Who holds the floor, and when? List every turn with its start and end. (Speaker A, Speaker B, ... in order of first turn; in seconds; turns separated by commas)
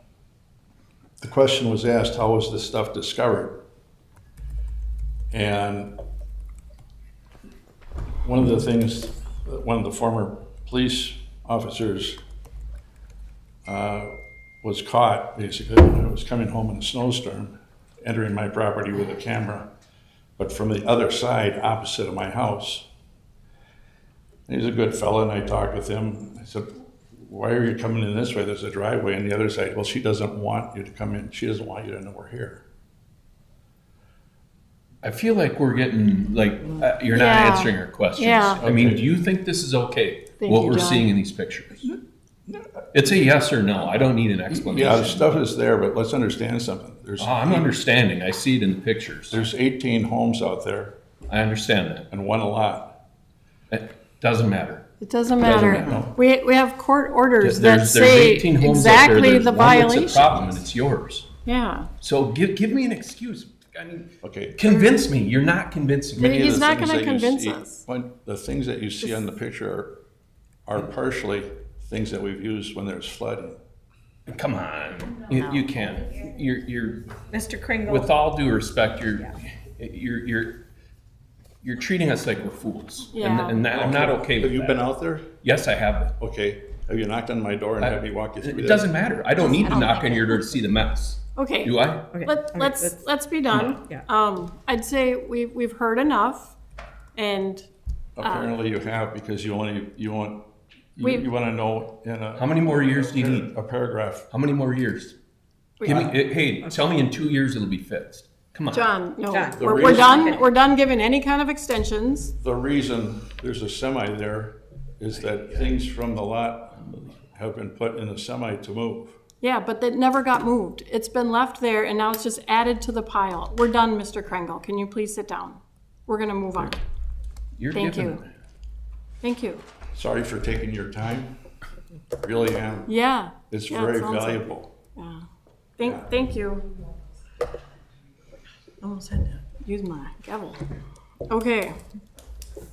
Speaker A: 1.2-3.6, Speaker A: 5.3-6.0, Speaker A: 8.2-12.2, Speaker A: 13.7-19.7, Speaker A: 20.4-22.9, Speaker A: 24.5-32.6, Speaker B: 35.0-41.9, Speaker C: 37.1-38.6, Speaker A: 38.6-39.0, Speaker C: 40.4-41.1, Speaker B: 42.9-45.4, Speaker A: 44.5-47.8, Speaker B: 47.2-49.4, Speaker A: 49.3-51.0, Speaker B: 51.3-52.0, Speaker A: 52.1-53.0, Speaker B: 53.7-54.8, Speaker C: 55.0-60.3, Speaker B: 55.4-56.0, Speaker A: 55.5-56.1, Speaker B: 57.4-61.2, Speaker A: 59.5-60.2, Speaker C: 61.5-61.9, Speaker B: 62.0-66.3, Speaker A: 64.2-64.6, Speaker A: 66.2-70.0, Speaker C: 66.2-67.8, Speaker A: 70.7-73.6, Speaker B: 74.3-77.2, Speaker D: 77.3-78.1, Speaker B: 77.8-80.6, Speaker B: 81.6-84.8, Speaker C: 83.1-83.6, Speaker A: 83.7-85.3, Speaker B: 85.4-86.1, Speaker A: 86.2-88.9, Speaker B: 87.8-92.1, Speaker C: 89.4-90.4, Speaker C: 91.3-96.5, Speaker D: 92.1-93.0, Speaker B: 93.5-93.8, Speaker C: 97.2-97.7, Speaker A: 98.2-104.3, Speaker C: 98.2-98.5, Speaker C: 101.0-101.2, Speaker B: 102.3-103.5, Speaker B: 104.3-105.1, Speaker C: 105.8-106.0, Speaker B: 105.8-108.9, Speaker A: 105.8-106.2, Speaker C: 108.7-112.3, Speaker D: 109.2-110.4, Speaker A: 109.6-110.4, Speaker A: 112.4-119.1, Speaker C: 119.4-126.8, Speaker B: 127.6-128.2, Speaker C: 127.7-128.2, Speaker C: 129.2-129.6, Speaker A: 129.9-131.3, Speaker A: 132.2-132.9, Speaker C: 132.9-134.4, Speaker A: 133.5-134.7, Speaker C: 134.9-135.2, Speaker C: 135.8-136.7, Speaker A: 135.8-136.1, Speaker C: 138.8-140.6, Speaker C: 141.3-141.7